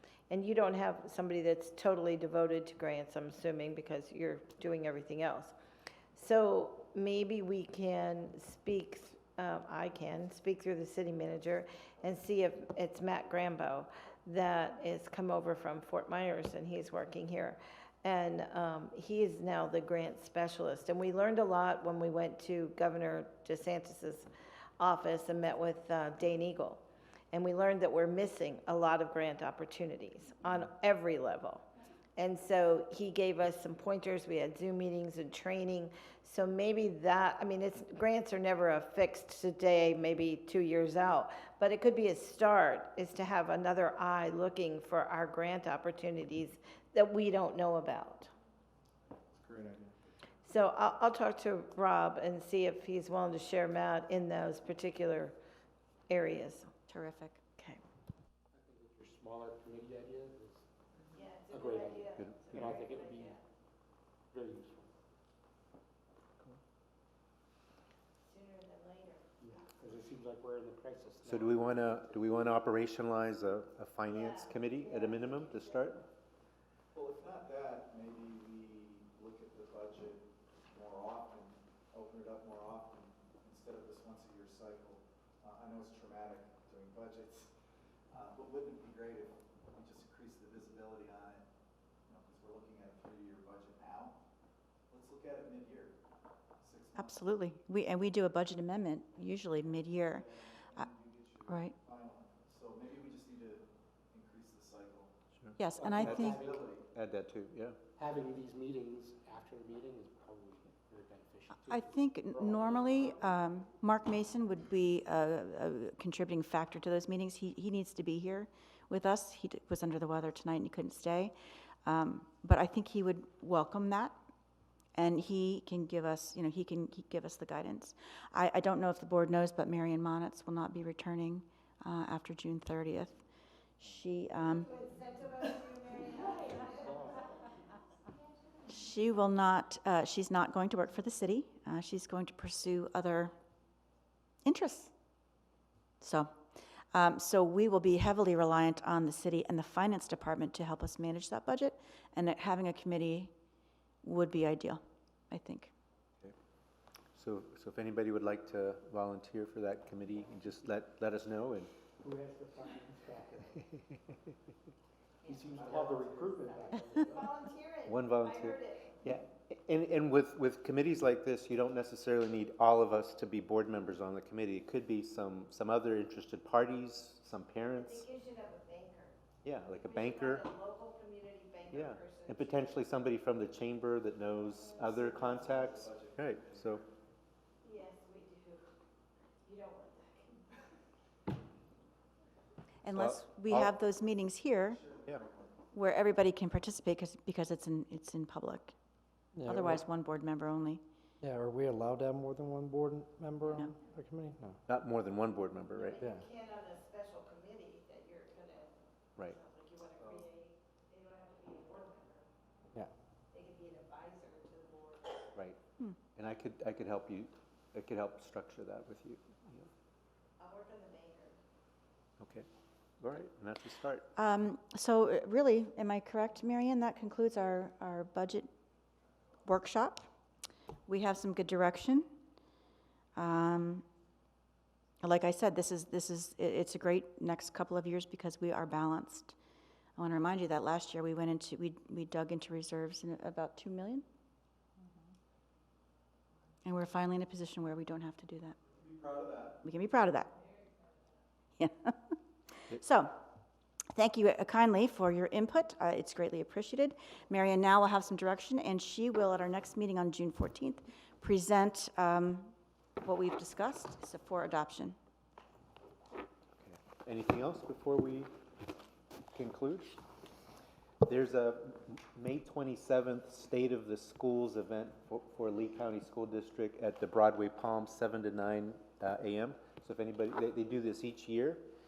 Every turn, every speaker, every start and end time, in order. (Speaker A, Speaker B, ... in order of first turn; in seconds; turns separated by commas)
Speaker A: 0.3-5.5, Speaker A: 6.2-24.3, Speaker A: 24.8-31.6, Speaker A: 32.1-48.3, Speaker B: 49.3-50.0, Speaker A: 50.5-55.4, Speaker A: 56.1-56.7, Speaker C: 56.9-57.8, Speaker D: 58.5-60.6, Speaker A: 61.1-63.4, Speaker D: 61.5-63.4, Speaker E: 62.2-62.8, Speaker D: 64.3-64.9, Speaker A: 68.2-69.2, Speaker D: 69.4-71.9, Speaker E: 71.2-76.0, Speaker A: 74.1-76.0, Speaker B: 76.9-87.5, Speaker B: 88.1-91.4, Speaker B: 92.0-94.2, Speaker B: 94.9-95.9, Speaker B: 96.6-97.2, Speaker C: 96.9-100.3, Speaker B: 100.4-105.1, Speaker C: 101.5-101.7, Speaker E: 105.4-107.8, Speaker C: 105.6-106.4, Speaker B: 105.8-106.8, Speaker D: 106.2-106.7, Speaker D: 107.9-113.0, Speaker C: 111.6-121.3, Speaker C: 121.8-124.2, Speaker C: 124.9-133.2, Speaker C: 133.8-134.7, Speaker A: 134.5-137.2, Speaker D: 136.7-137.3, Speaker C: 138.7-143.3, Speaker C: 144.4-144.9, Speaker C: 146.0-146.3, Speaker C: 146.9-153.3, Speaker C: 154.0-155.7, Speaker E: 157.1-161.7, Speaker D: 162.0-163.5, Speaker D: 165.2-167.3, Speaker B: 165.5-166.6, Speaker A: 167.0-169.0, Speaker E: 167.9-178.1, Speaker A: 177.7-179.1, Speaker E: 179.4-180.5, Speaker A: 179.8-182.5, Speaker E: 181.7-186.8, Speaker A: 184.5-184.9, Speaker B: 184.9-186.9, Speaker A: 187.6-188.7, Speaker A: 189.4-190.5, Speaker C: 192.8-194.8, Speaker E: 192.9-193.7, Speaker B: 194.7-195.5, Speaker C: 195.7-198.7, Speaker F: 199.3-199.8, Speaker C: 199.4-200.8, Speaker F: 201.2-204.6, Speaker E: 204.7-206.0, Speaker A: 205.7-212.3, Speaker E: 210.0-210.2, Speaker A: 213.3-215.3, Speaker E: 216.2-219.7, Speaker A: 220.4-221.4, Speaker E: 222.2-222.4, Speaker E: 223.0-224.1, Speaker C: 224.2-228.5, Speaker C: 229.4-230.1, Speaker C: 230.9-232.1, Speaker C: 233.2-233.8, Speaker C: 235.0-239.3, Speaker C: 240.0-244.0, Speaker C: 246.6-248.6, Speaker B: 248.7-249.6, Speaker C: 249.6-250.3, Speaker C: 251.6-252.1, Speaker C: 252.7-253.2, Speaker C: 253.9-264.9, Speaker E: 266.6-268.3, Speaker E: 269.3-270.0, Speaker E: 271.0-281.7